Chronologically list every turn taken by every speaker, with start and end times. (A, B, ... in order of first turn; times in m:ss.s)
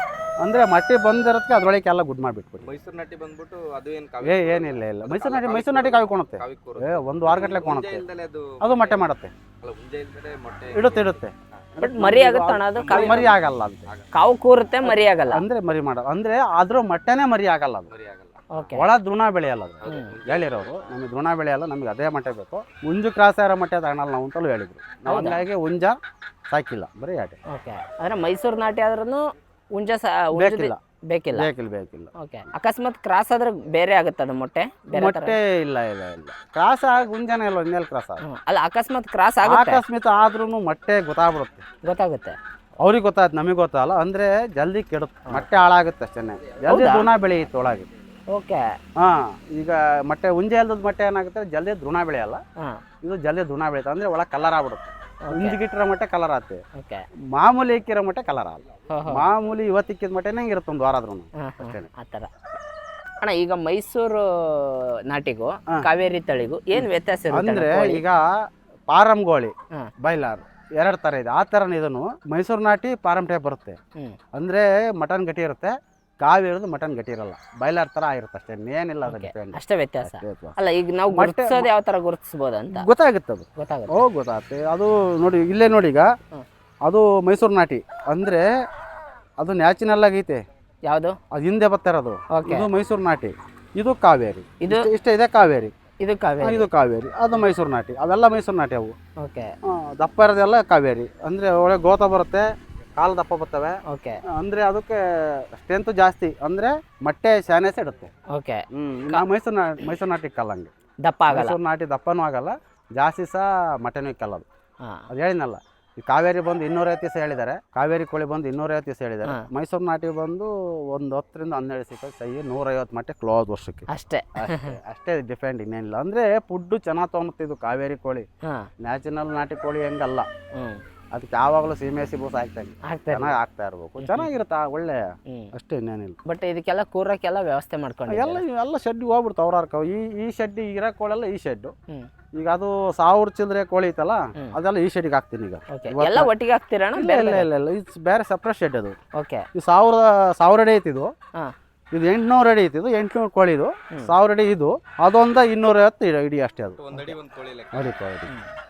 0:00.4-0:02.8 A
0:02.6-0:09.0 B
0:04.2-0:08.1 A
0:08.6-0:09.3 A
0:09.6-0:11.2 B
0:10.7-0:13.9 A
0:11.8-0:13.4 C
0:12.8-0:13.3 B
0:14.1-0:15.4 C
0:14.8-0:17.9 A
0:17.9-0:18.5 B
0:18.5-0:18.9 C
0:18.7-0:26.0 A
0:19.8-0:20.6 B
0:19.9-0:20.2 C
0:25.1-0:25.4 C
0:26.5-0:27.4 A
0:27.5-0:31.5 C
0:30.4-0:30.8 A
0:31.3-0:32.1 A
0:32.2-0:35.4 C
0:34.9-0:38.2 A
0:38.2-0:39.8 C
0:39.4-0:41.6 A
0:41.8-0:42.4 C
0:42.8-0:47.9 A
0:46.7-0:47.1 C
0:48.3-0:48.6 C
0:49.0-0:52.4 A
0:53.0-0:56.6 A
0:55.2-0:55.6 C
0:56.8-0:57.0 C
0:57.3-1:01.9 A
0:58.9-0:59.3 C
1:01.4-1:02.3 C
1:03.2-1:08.0 C
1:06.8-1:08.2 A
1:08.9-1:13.8 A
1:14.3-1:20.6 A
1:19.1-1:22.9 C
1:21.1-1:21.7 A
1:22.7-1:26.1 A
1:23.6-1:24.0 C
1:26.9-1:28.4 A
1:29.4-1:30.4 A
1:30.9-1:31.2 C
1:31.3-1:35.7 A
1:32.3-1:32.7 C
1:34.6-1:34.9 C
1:36.0-1:36.7 C
1:36.4-1:39.0 A
1:39.2-1:39.5 C
1:39.6-1:42.4 A
1:43.0-1:43.8 A
1:43.9-1:44.2 C
1:44.3-1:48.1 A
1:48.3-1:49.2 C
1:48.7-1:50.7 A
1:51.0-1:51.6 C
1:51.3-1:54.4 A
1:55.1-2:08.3 A
2:03.9-2:04.8 C
2:08.8-2:10.3 A
2:10.6-2:10.8 C
2:11.1-2:16.2 A
2:12.9-2:13.4 C
2:14.0-2:14.3 C
2:16.3-2:18.4 C
2:18.1-2:21.7 A
2:22.4-2:26.3 A
2:25.7-2:27.5 C
2:27.0-2:29.0 A
2:29.2-2:29.5 C
2:29.5-2:31.1 A
2:31.9-2:37.2 A
2:36.8-2:37.8 B
2:37.7-2:38.3 A